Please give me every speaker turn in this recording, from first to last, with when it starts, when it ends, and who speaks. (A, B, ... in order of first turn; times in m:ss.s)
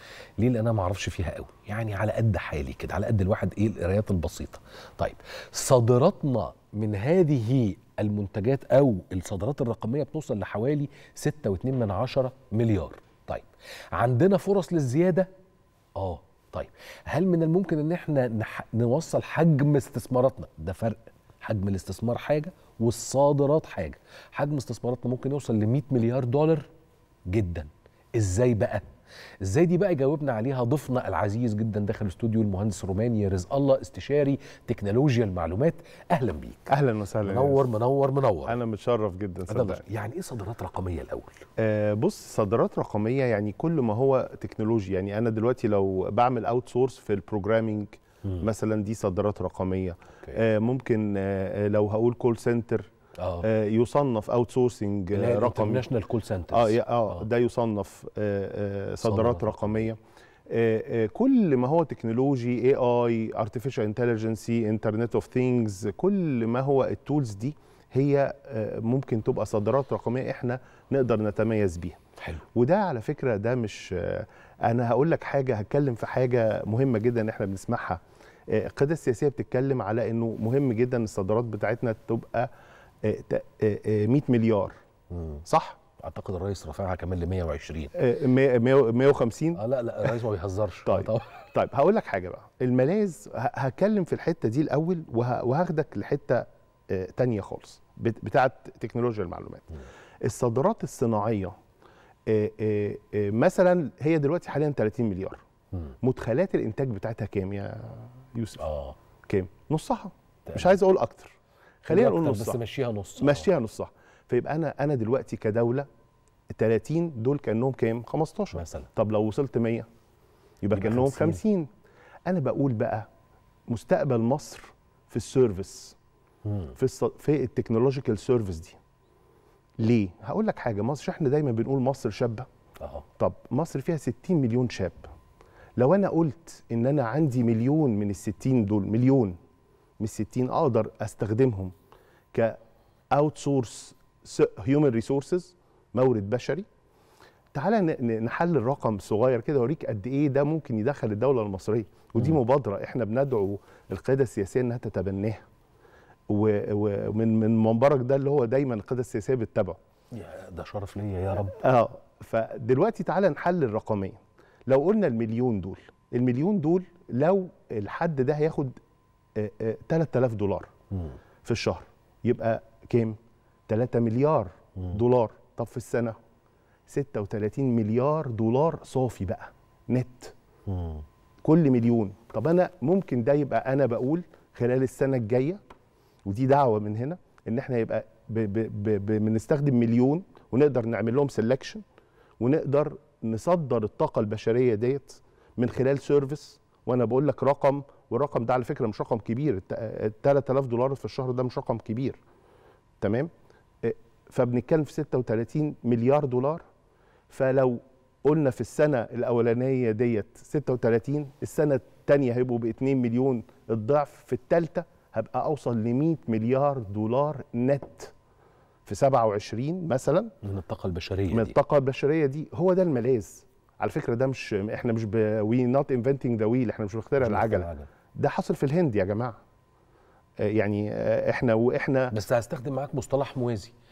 0:00.4-0:15.3 A
0:16.0-0:26.7 A
0:27.3-0:28.8 A
0:29.4-0:36.7 A
0:36.7-0:37.7 B
0:37.3-0:38.6 A
0:38.5-0:39.8 B
0:39.5-0:41.4 A
0:41.6-0:52.9 B
0:53.2-0:53.5 A
0:53.4-0:55.9 B
0:55.1-0:57.3 A
0:56.5-1:00.0 B
0:59.0-0:59.9 A
1:00.5-1:12.0 B
1:12.5-1:22.5 B
1:23.0-1:24.7 B
1:25.1-1:25.4 A
1:25.5-1:25.8 B
1:26.0-1:27.9 A
1:27.9-1:30.1 B
1:29.6-1:31.5 A
1:30.9-1:39.7 B
1:40.2-1:41.5 B
1:42.3-1:45.4 B
1:46.0-1:48.7 B
1:48.6-1:49.0 A
1:49.3-1:52.6 B
1:50.5-1:50.7 A
1:51.9-1:53.5 A
1:53.2-1:55.9 B
1:56.5-1:59.9 B
1:58.5-1:58.9 A
2:00.6-2:01.7 B
2:00.7-2:01.4 A
2:02.3-2:03.1 B
2:03.7-2:06.0 B
2:06.5-2:06.7 A
2:06.8-2:08.8 B
2:09.8-2:12.5 B
2:13.2-2:15.1 B
2:15.8-2:19.4 B
2:20.0-2:21.7 B
2:22.3-2:22.6 B
2:23.1-2:26.6 B
2:27.5-2:35.4 B
2:36.3-2:39.8 B
2:40.1-2:41.6 A
2:41.6-2:48.8 B
2:49.4-2:50.7 B
2:51.4-2:53.2 B
2:53.7-2:56.2 B
2:56.9-3:00.3 B
3:00.7-3:01.0 A
3:01.4-3:05.6 B
3:06.2-3:11.8 B
3:12.4-3:22.2 B
3:23.0-3:23.3 B
3:23.8-3:26.6 B
3:27.3-3:38.1 B
3:38.9-3:40.3 B
3:40.4-3:41.6 A
3:41.3-3:49.4 B
3:47.2-3:47.9 A
3:50.4-3:52.1 B
3:52.1-3:53.7 A